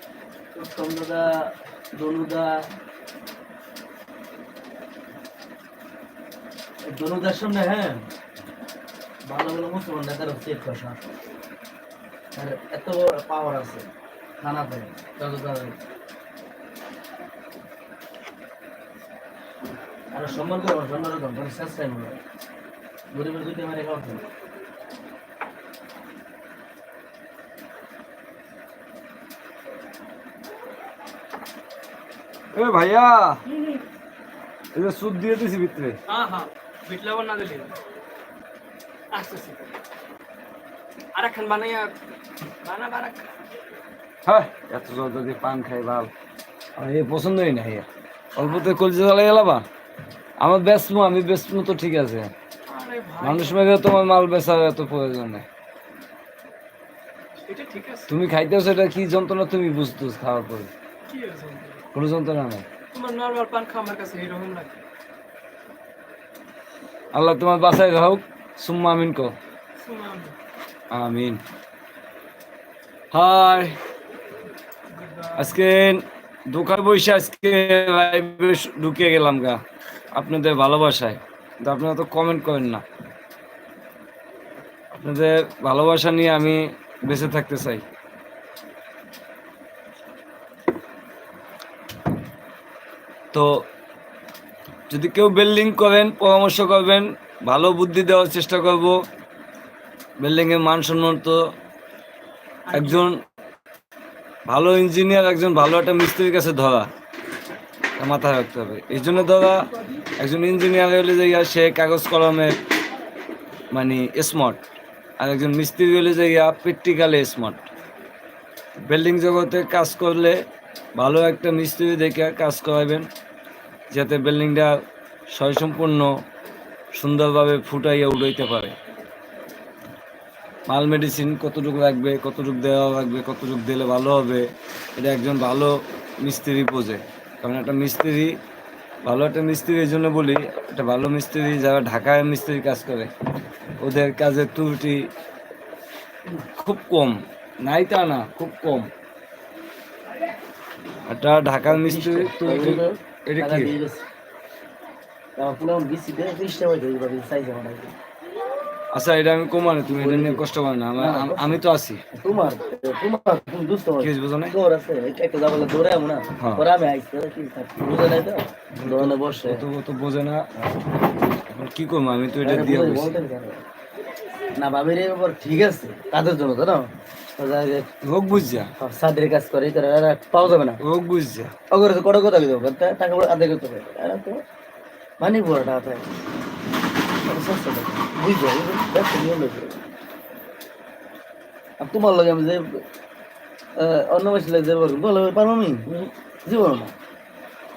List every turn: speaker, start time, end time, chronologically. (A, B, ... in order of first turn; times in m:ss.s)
0:00.5-0:01.3 A
0:02.0-0:02.6 A
0:06.8-0:08.0 A
0:09.3-0:11.0 A
0:12.4-0:13.8 A
0:14.4-0:15.7 A
0:20.1-0:22.2 A
0:23.1-0:24.2 A
0:32.5-0:33.4 B
0:34.7-0:36.0 B
0:36.1-0:37.7 C
0:39.1-0:39.8 C
0:41.1-0:41.9 C
0:42.6-0:43.3 C
0:44.2-0:46.1 B
0:46.8-0:49.6 B
0:50.4-0:52.3 B
0:52.7-0:53.6 C
0:53.2-0:55.4 B
0:57.4-0:58.1 C
0:58.1-1:00.7 B
1:01.1-1:01.8 C
1:01.9-1:02.6 B
1:02.9-1:04.8 C
1:07.1-1:09.4 B
1:09.8-1:10.3 C
1:10.9-1:11.4 B
1:13.1-1:13.8 B
1:14.9-1:15.5 C
1:15.4-1:19.6 B
1:20.1-1:22.8 B
1:24.9-1:27.8 B
1:33.3-1:33.6 B
1:34.9-1:39.0 B
1:40.2-1:41.4 B
1:42.7-1:43.0 C
1:42.7-1:43.2 B
1:44.5-1:46.9 B
1:48.0-1:49.7 B
1:50.2-1:52.6 B
1:53.7-1:54.6 B
1:55.2-1:57.6 B
1:58.8-2:00.4 B
2:01.0-2:03.1 B
2:03.9-2:04.7 B
2:05.3-2:06.1 B
2:06.9-2:08.7 B
2:10.7-2:18.4 B
2:19.0-2:23.1 B
2:23.8-2:25.1 B
2:26.5-2:28.9 B
2:31.0-2:33.7 B
2:31.7-2:34.0 A
2:35.4-2:37.9 A
2:38.9-2:42.0 B
2:39.9-2:40.4 A
2:41.0-2:41.6 A
2:42.1-2:49.6 A
2:44.0-2:44.6 B
2:46.4-2:46.6 B
2:48.8-2:50.5 B
2:51.5-2:53.2 B
2:52.4-2:53.6 A
2:54.5-2:56.9 A
2:57.4-2:57.9 A
2:58.0-2:58.7 B
2:58.8-3:00.8 A
3:00.8-3:01.5 B
3:01.7-3:04.4 A
3:05.2-3:06.1 A
3:07.2-3:09.8 A
3:11.8-3:12.8 A
3:13.8-3:16.9 A